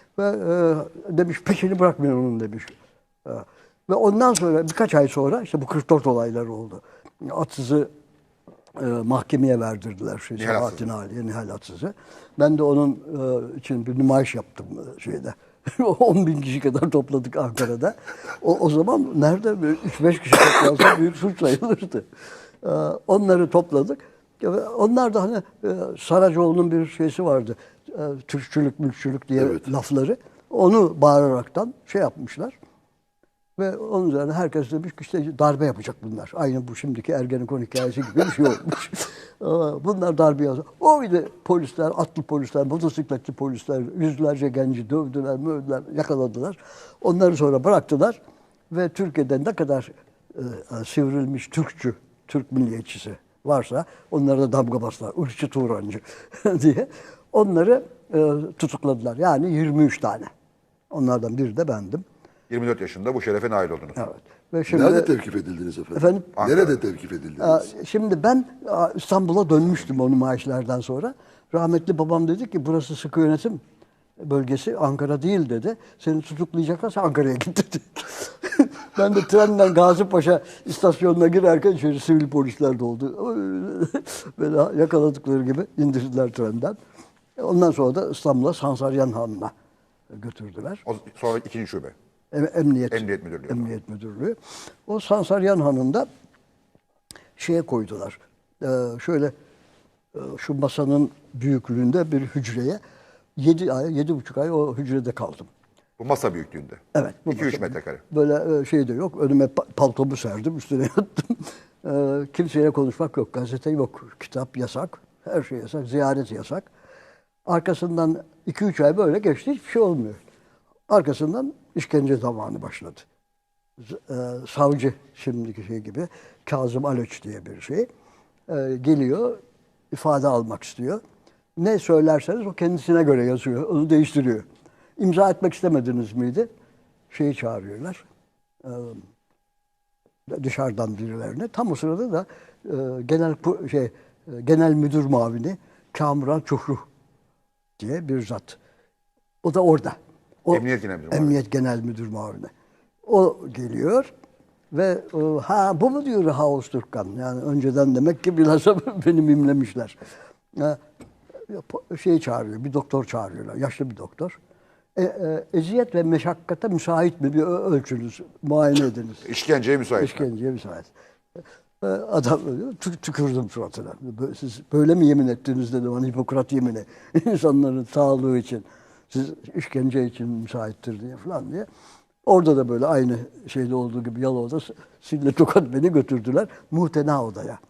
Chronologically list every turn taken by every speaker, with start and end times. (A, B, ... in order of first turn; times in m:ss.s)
0:00.2-0:02.7 A
0:03.2-0:07.9 A
0:08.7-0:22.1 A
0:10.4-0:10.8 B
0:22.6-0:32.5 A
0:33.6-0:48.2 A
0:48.7-1:00.3 A
1:00.9-1:02.0 A
1:02.5-1:04.0 B
1:04.0-1:05.1 A
1:04.7-1:07.6 C
1:05.9-1:06.3 A
1:06.4-1:06.7 B
1:07.4-1:13.6 A
1:14.2-1:26.8 A
1:27.4-1:29.5 A
1:30.1-1:30.8 A
1:30.8-1:31.9 B
1:32.3-1:36.1 A
1:32.9-1:33.7 B
1:37.4-1:39.3 A
1:40.1-1:42.8 A
1:43.4-1:45.5 A
1:46.0-1:48.0 B
1:46.9-1:56.7 A
1:57.5-2:00.2 A
2:00.9-2:03.0 A
2:03.8-2:07.9 A
2:08.5-2:09.4 A
2:09.9-2:11.0 A
2:11.6-2:14.4 A
2:15.0-2:16.5 A
2:17.1-2:18.0 A
2:18.6-2:19.0 A
2:20.3-2:26.8 A
2:27.8-2:28.6 A
2:29.4-2:32.5 A
2:30.5-2:31.4 B
2:33.0-2:34.1 A
2:34.7-2:40.0 A
2:40.5-2:40.8 A
2:41.5-2:44.4 A
2:45.0-2:49.3 A
2:49.2-2:50.2 B
2:50.0-2:50.9 A
2:51.8-3:01.7 A
3:02.2-3:07.6 A